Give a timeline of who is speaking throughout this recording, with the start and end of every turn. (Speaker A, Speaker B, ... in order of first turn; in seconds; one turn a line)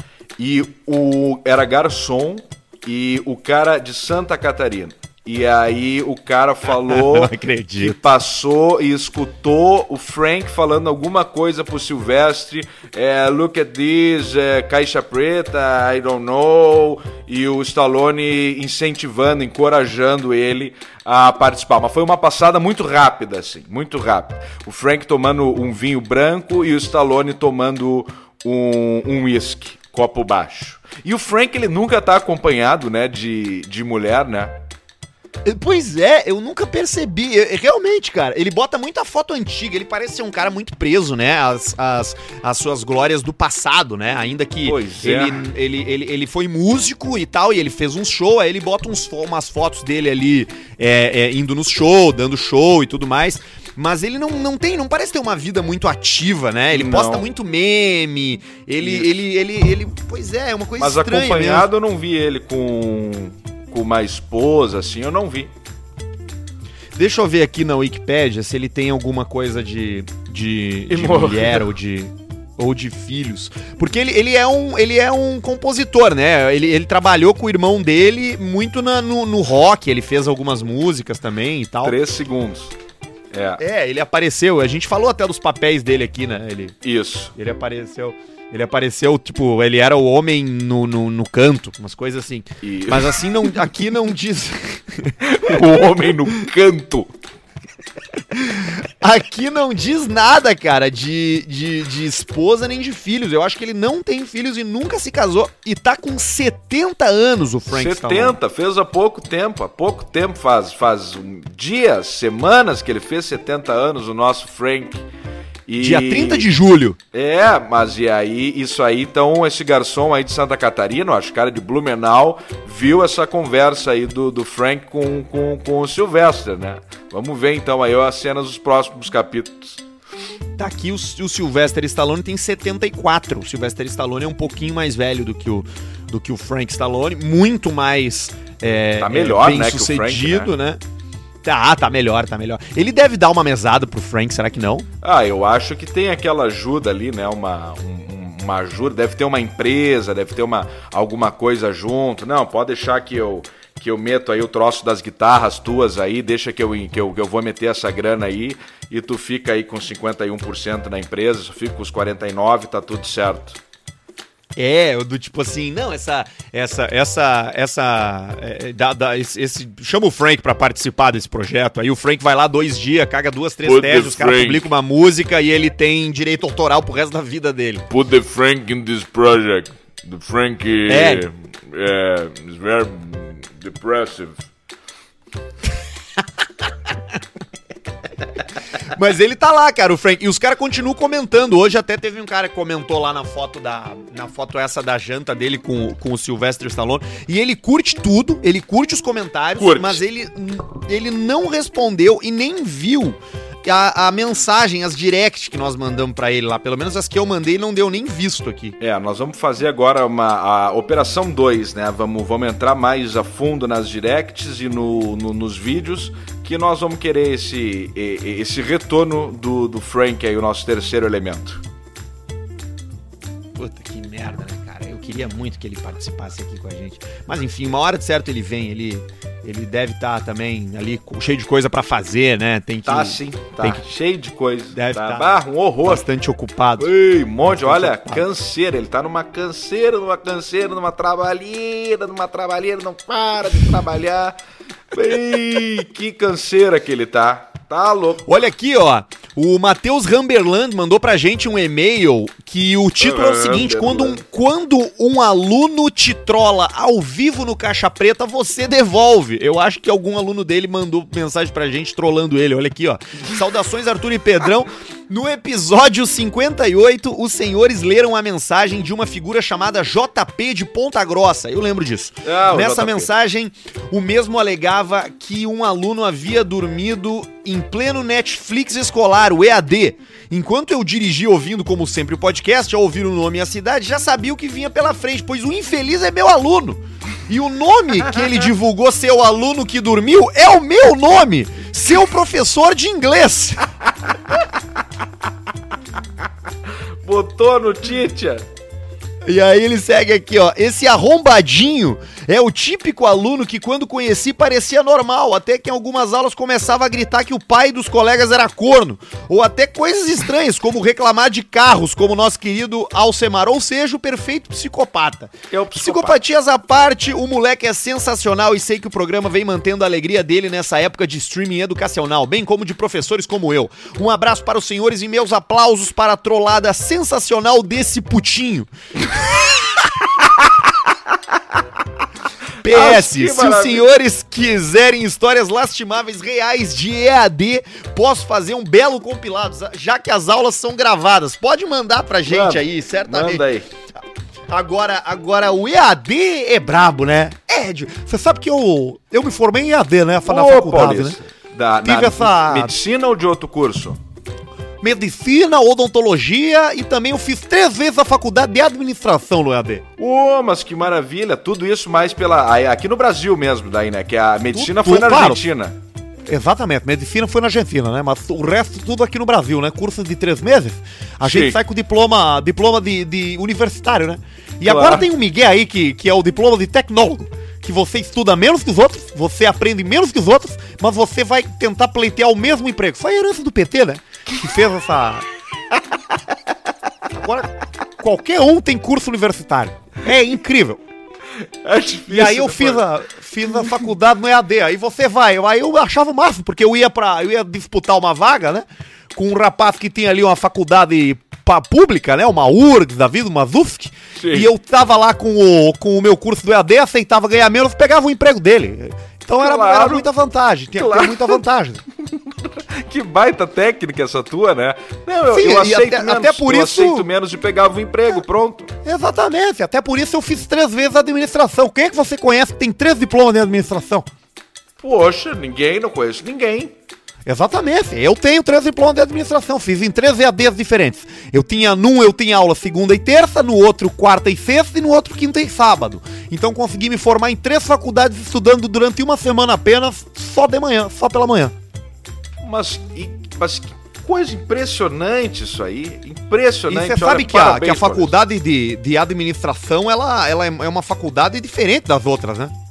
Speaker A: 0.4-34.5
Speaker B: 6.7-8.0
Speaker B: 35.4-61.7
Speaker A: 44.6-45.4
Speaker A: 56.7-57.3
Speaker A: 58.8-59.2
Speaker A: 60.8-65.5
Speaker B: 67.0-82.0
Speaker A: 70.9-71.7
Speaker A: 81.8-82.7
Speaker A: 83.3-83.6
Speaker B: 83.6-86.8
Speaker A: 86.8-87.3
Speaker B: 87.3-95.2
Speaker A: 92.6-93.5
Speaker A: 95.2-97.1
Speaker B: 98.3-108.4
Speaker A: 107.7-115.0
Speaker A: 115.7-116.5
Speaker B: 115.8-117.0
Speaker A: 117.1-129.8
Speaker B: 130.6-140.8
Speaker A: 139.0-140.5
Speaker B: 141.4-144.9
Speaker A: 145.0-163.6
Speaker B: 164.6-177.8
Speaker A: 173.6-174.7
Speaker A: 177.9-184.4
Speaker B: 180.9-181.2
Speaker B: 188.8-208.8
Speaker A: 199.6-200.0
Speaker A: 208.8-221.6
Speaker B: 223.6-233.8
Speaker A: 232.8-236.1
Speaker B: 234.7-236.9
Speaker A: 236.8-244.3
Speaker B: 237.4-238.3
Speaker A: 244.9-248.2
Speaker B: 248.2-293.7
Speaker A: 253.0-254.2
Speaker A: 272.2-273.1
Speaker A: 297.0-298.4
Speaker B: 299.2-328.7
Speaker A: 315.5-316.2
Speaker B: 332.6-343.4
Speaker A: 332.6-333.9
Speaker A: 342.2-343.7
Speaker B: 344.5-351.2
Speaker A: 350.2-354.0
Speaker B: 351.8-352.7
Speaker B: 354.8-359.8
Speaker A: 360.0-365.8
Speaker B: 364.5-365.4
Speaker B: 366.2-385.3
Speaker A: 371.2-371.6
Speaker A: 374.6-375.1
Speaker B: 387.1-390.8
Speaker A: 391.4-392.9
Speaker B: 392.1-411.8
Speaker A: 404.2-404.5
Speaker A: 409.4-410.1
Speaker A: 410.8-411.4
Speaker A: 412.1-418.7
Speaker B: 415.3-417.1
Speaker B: 418.8-424.1
Speaker A: 424.8-426.7
Speaker B: 427.2-441.5
Speaker A: 442.4-448.1
Speaker B: 446.7-452.5